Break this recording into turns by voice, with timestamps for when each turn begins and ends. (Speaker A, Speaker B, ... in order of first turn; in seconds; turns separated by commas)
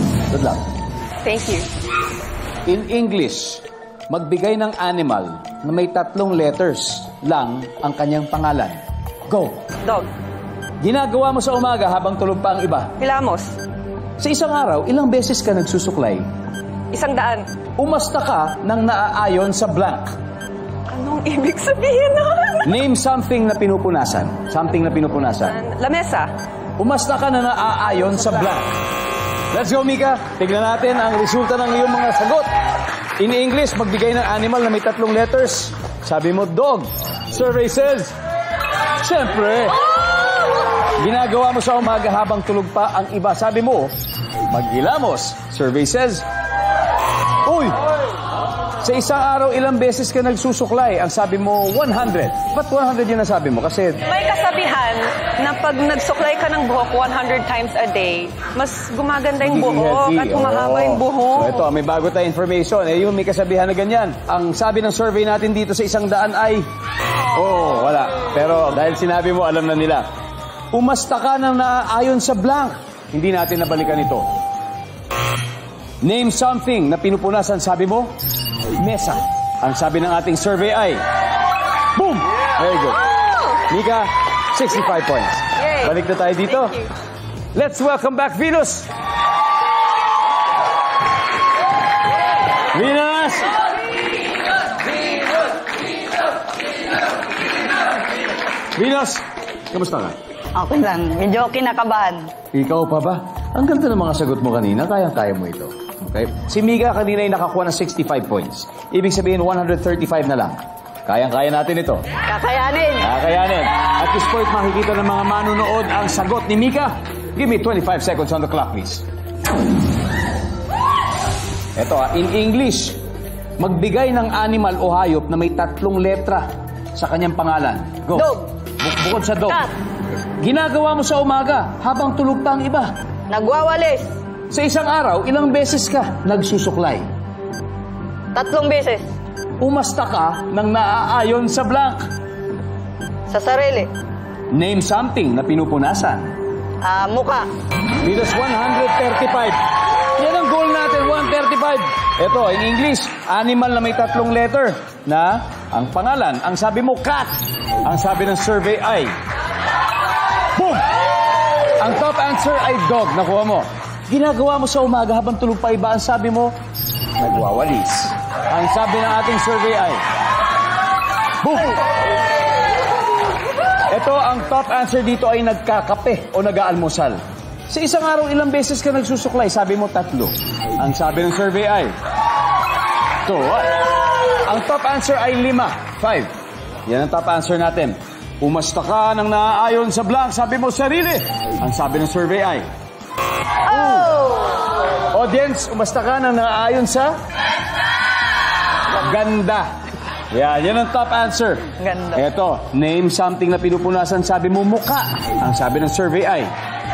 Speaker A: 0.3-0.7, Speaker B: 1.2-1.7, Speaker A: 2.6-9.7, Speaker B: 9.8-10.1, Speaker A: 10.8-12.9, Speaker B: 13.0-13.6, Speaker A: 14.2-16.3, Speaker B: 16.9-17.5, Speaker A: 17.8-20.1, Speaker B: 20.9-22.7, Speaker A: 22.6-25.6, Speaker B: 25.3-26.3, Speaker A: 26.8-28.8, Speaker A: 29.5-32.5, Speaker A: 33.2-38.1, Speaker A: 39.0-39.8, Speaker A: 41.0-43.9, Speaker A: 44.5-46.2, Speaker A: 47.4-47.8, Speaker A: 48.8-54.0, Speaker B: 54.0-61.7, Speaker A: 59.4-66.7, Speaker A: 67.3-70.0, Speaker A: 70.7-74.3, Speaker A: 76.0-78.1, Speaker A: 78.7-81.0, Speaker A: 81.9-86.9, Speaker A: 87.5-88.9, Speaker A: 92.7-93.5, Speaker A: 98.7-100.2, Speaker C: 100.5-102.3, Speaker A: 102.5-112.0, Speaker C: 112.3-113.1, Speaker A: 113.0-119.0, Speaker A: 121.8-123.0, Speaker A: 123.6-129.7, Speaker C: 128.2-128.5, Speaker A: 130.4-132.9, Speaker C: 133.3-134.1, Speaker A: 134.5-137.1, Speaker C: 138.3-139.1, Speaker A: 139.6-142.1, Speaker C: 143.3-143.9, Speaker A: 144.5-146.3, Speaker C: 146.8-147.5, Speaker A: 148.0-149.6, Speaker A: 150.2-159.2, Speaker A: 160.5-160.9, Speaker A: 161.8-166.5, Speaker A: 167.2-170.0, Speaker A: 171.4-171.8, Speaker A: 173.9-181.9, Speaker A: 183.2-186.3, Speaker A: 186.8-192.7, Speaker A: 193.7-194.4, Speaker C: 194.2-194.6, Speaker A: 195.1-197.2, Speaker A: 198.9-199.7, Speaker A: 200.3-206.5, Speaker C: 201.8-202.2